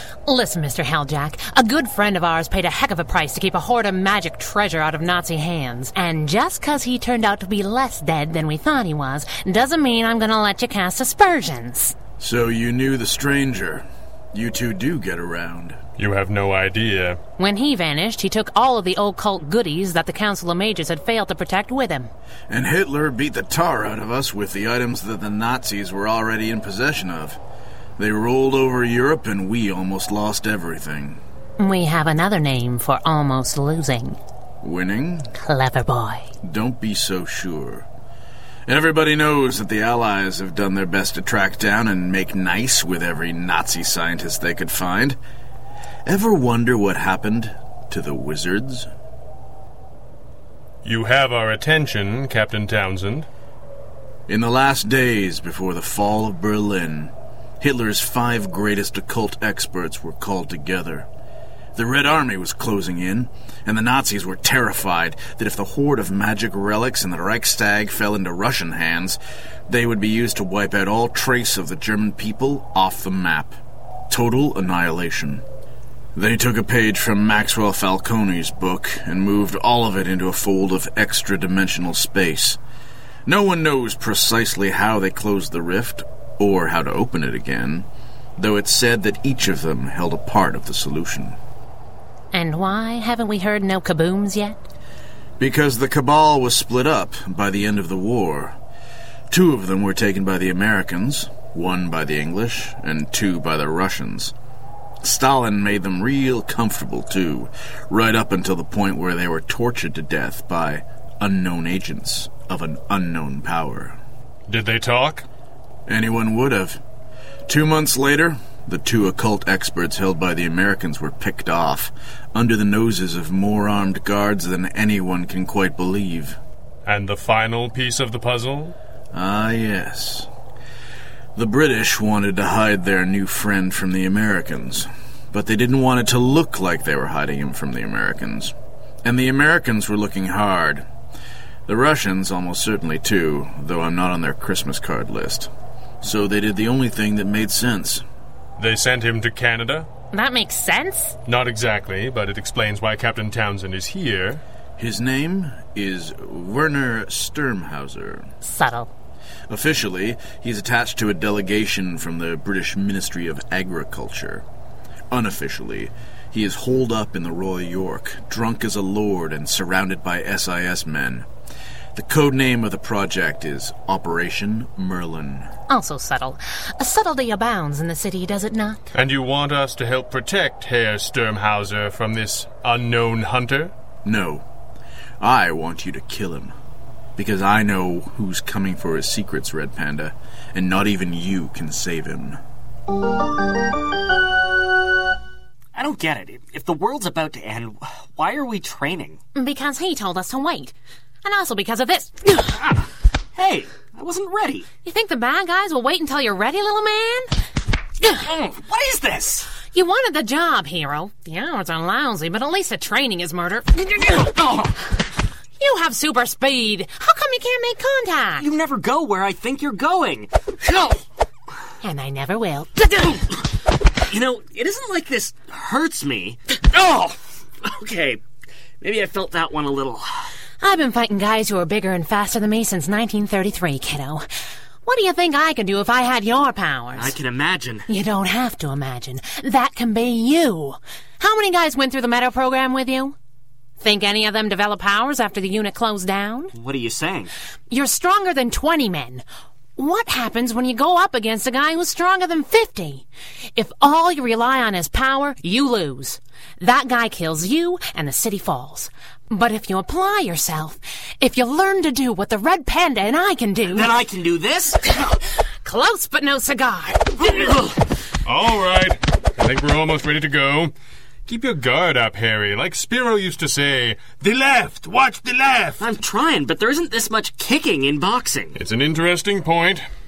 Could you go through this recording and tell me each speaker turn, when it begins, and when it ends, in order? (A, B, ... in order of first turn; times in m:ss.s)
0:00.3-0:12.0 A
0:12.2-0:15.8 B
0:16.0-0:17.2 C
0:17.4-0:22.1 A
0:22.5-0:27.4 B
0:28.0-0:31.2 B
0:31.6-0:34.2 A
0:34.6-0:35.3 B
0:35.4-0:36.3 A
0:36.4-0:37.9 B
0:38.7-0:45.2 B
0:46.1-0:48.9 B
0:50.8-0:53.3 C
0:54.3-1:01.1 B
1:01.8-1:13.6 B
1:14.1-1:15.4 B
1:16.2-1:22.6 B
1:23.3-1:27.9 B
1:28.4-1:31.4 B
1:32.3-1:34.6 A
1:35.4-1:38.6 B
1:39.3-1:44.3 B
1:45.0-1:54.0 B
1:54.5-1:55.2 C
1:55.9-1:56.8 B
1:57.5-2:06.4 B
2:06.9-2:08.8 C
2:09.1-2:10.3 B
2:11.4-2:20.8 B
2:21.7-2:25.5 B
2:26.0-2:28.0 B
2:28.6-2:29.9 C
2:30.1-2:31.2 A
2:31.3-2:34.4 C
2:34.8-2:38.3 B
2:38.4-2:38.9 A
2:39.5-2:44.4 B
2:45.1-2:51.3 B
2:52.0-2:55.5 B
2:55.7-2:58.8 A
2:58.9-3:03.7 C
3:04.0-3:04.4 B
3:05.2-3:06.5 B
3:07.2-3:12.4 B
3:15.8-3:19.2 D
3:19.4-3:22.6 A
3:22.6-3:22.8 D
3:23.4-3:24.7 D
3:24.8-3:27.4 A
3:28.2-3:29.5 D
3:29.7-3:34.3 A
3:34.4-3:34.7 D
3:35.6-3:38.5 A
3:38.4-3:41.0 D
3:41.8-3:43.1 A
3:43.0-3:43.4 D
3:44.0-3:48.2 D
3:48.8-3:50.3 D
3:50.6-3:54.3 A
3:54.8-3:57.2 A
3:57.0-3:57.9 D
3:57.9-4:03.2 A
4:03.8-4:06.5 A
4:06.6-4:07.3 D
4:07.7-4:09.2 A
4:09.8-4:13.0 A
4:13.6-4:23.9 A
4:23.7-4:25.0 D
4:25.6-4:27.4 A
4:27.3-4:27.7 D
4:28.2-4:30.7 C
4:31.3-4:35.8 C
4:35.8-4:38.6 D
4:38.6-4:39.8 C